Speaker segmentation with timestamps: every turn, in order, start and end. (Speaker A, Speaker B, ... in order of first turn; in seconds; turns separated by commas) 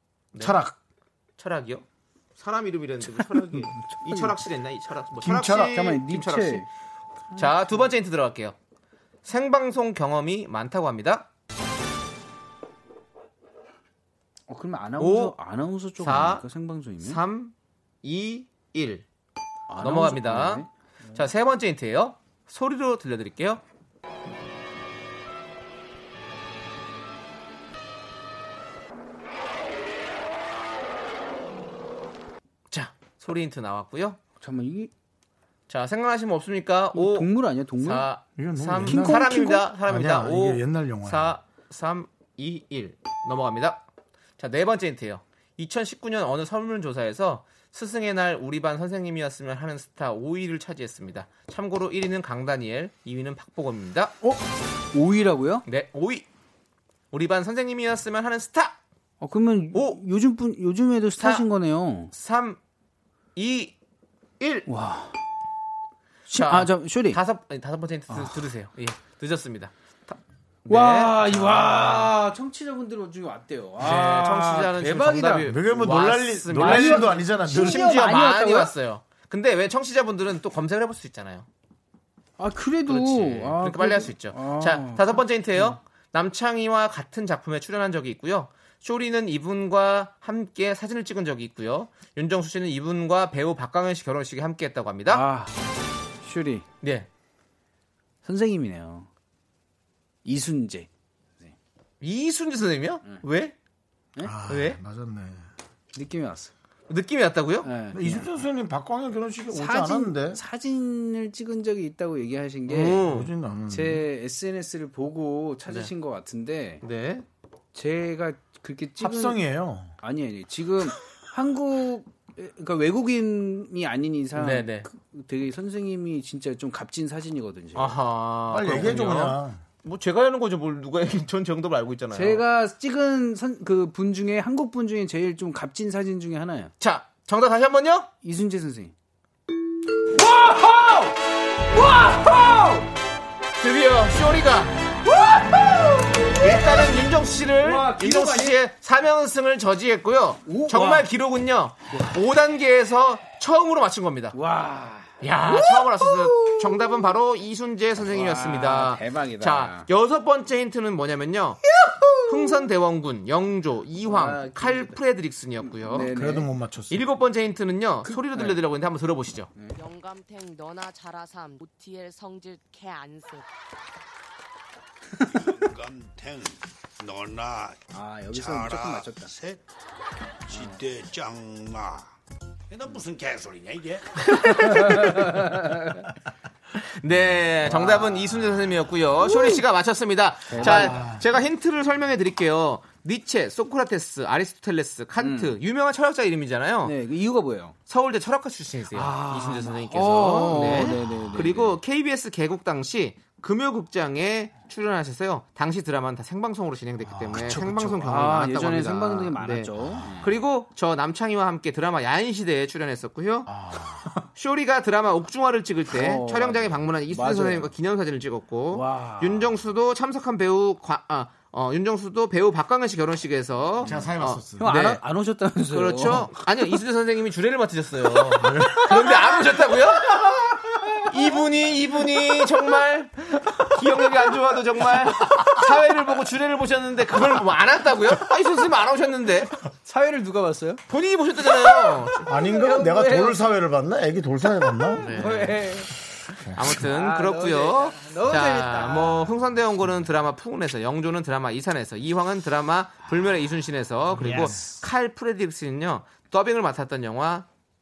Speaker A: 0.3-0.6, Speaker B: 0.4-0.8, Speaker A: 1.4-1.8, Speaker A: 2.4-6.7, Speaker B: 5.2-5.8, Speaker C: 5.6-6.7, Speaker A: 7.3-8.5, Speaker A: 9.2-11.3, Speaker C: 14.5-17.2, Speaker A: 15.0-15.4, Speaker A: 16.0-16.5, Speaker A: 17.0-19.1, Speaker C: 19.7-21.3, Speaker A: 19.8-23.6, Speaker A: 32.7-34.2, Speaker C: 34.4-34.9, Speaker A: 35.7-43.8, Speaker C: 36.9-38.1, Speaker B: 38.4-41.4, Speaker C: 38.8-39.6, Speaker A: 44.4-54.1, Speaker C: 54.9-55.6, Speaker A: 55.6-56.2, Speaker A: 57.1-58.8, Speaker C: 59.2-62.1, Speaker A: 59.7-60.0, Speaker A: 61.2-61.5, Speaker A: 62.1-62.6, Speaker A: 63.4-63.7, Speaker A: 64.4-64.7, Speaker C: 64.7-65.1, Speaker A: 66.3-72.1, Speaker C: 66.3-67.2, Speaker C: 70.7-75.5, Speaker A: 73.8-81.5, Speaker B: 75.4-78.0, Speaker C: 76.5-78.7, Speaker C: 82.4-85.8, Speaker A: 82.9-95.2, Speaker C: 95.1-95.5, Speaker C: 96.2-96.7, Speaker A: 96.8-97.1, Speaker C: 98.2-99.1, Speaker C: 100.2-100.9, Speaker A: 102.0-103.5, Speaker B: 104.2-105.4, Speaker A: 104.5-104.8, Speaker C: 105.9-106.5, Speaker A: 106.9-107.7, Speaker C: 107.6-108.3, Speaker B: 107.9-110.4, Speaker C: 109.5-113.1, Speaker A: 112.7-113.3, Speaker B: 113.1-114.0, Speaker C: 113.7-116.8, Speaker A: 116.8-117.2, Speaker C: 117.7-119.4, Speaker B: 119.0-119.9, Speaker C: 120.0-128.0, Speaker A: 124.3-124.9, Speaker A: 127.7-132.4, Speaker B: 128.5-129.6, Speaker C: 132.1-136.7, Speaker A: 136.8-138.1, Speaker C: 138.2-138.9, Speaker C: 140.1-141.2, Speaker C: 141.7-142.9, Speaker A: 143.6-144.8, Speaker C: 145.1-146.9, Speaker A: 146.4-154.3, Speaker C: 147.6-148.6, Speaker C: 150.4-151.1, Speaker C: 154.3-157.1, Speaker A: 155.2-161.6, Speaker C: 158.1-159.9, Speaker C: 161.8-162.7, Speaker A: 162.3-166.1, Speaker C: 164.0-165.0, Speaker C: 165.6-166.5, Speaker B: 166.1-167.0, Speaker A: 166.9-169.5, Speaker C: 168.0-168.6, Speaker D: 169.7-173.5, Speaker E: 175.2-179.6, Speaker C: 177.9-179.3, Speaker E: 180.5-182.1, Speaker E: 182.7-184.3, Speaker A: 184.3-185.2, Speaker C: 184.7-185.7, Speaker A: 186.9-196.9, Speaker C: 187.6-188.5, Speaker C: 189.3-189.6, Speaker C: 190.5-191.1, Speaker B: 190.6-191.2, Speaker C: 195.2-195.6, Speaker C: 196.8-197.7, Speaker A: 197.9-213.5, Speaker C: 198.9-201.8, Speaker B: 207.1-207.8, Speaker C: 207.3-210.3, Speaker B: 213.5-214.1, Speaker A: 214.3-225.0, Speaker C: 215.9-217.7, Speaker C: 218.7-219.5, Speaker B: 223.8-224.7, Speaker C: 224.6-226.3, Speaker A: 225.7-230.4, Speaker B: 228.4-229.0, Speaker C: 228.9-229.4, Speaker A: 231.0-239.5, Speaker C: 239.8-240.8, Speaker A: 240.9-242.3, Speaker C: 241.6-243.4, Speaker B: 242.2-245.1, Speaker C: 244.5-245.9, Speaker A: 245.0-245.6, Speaker B: 246.4-246.7, Speaker A: 246.5-257.5, Speaker C: 246.7-249.3, Speaker C: 254.2-254.6, Speaker B: 254.2-254.5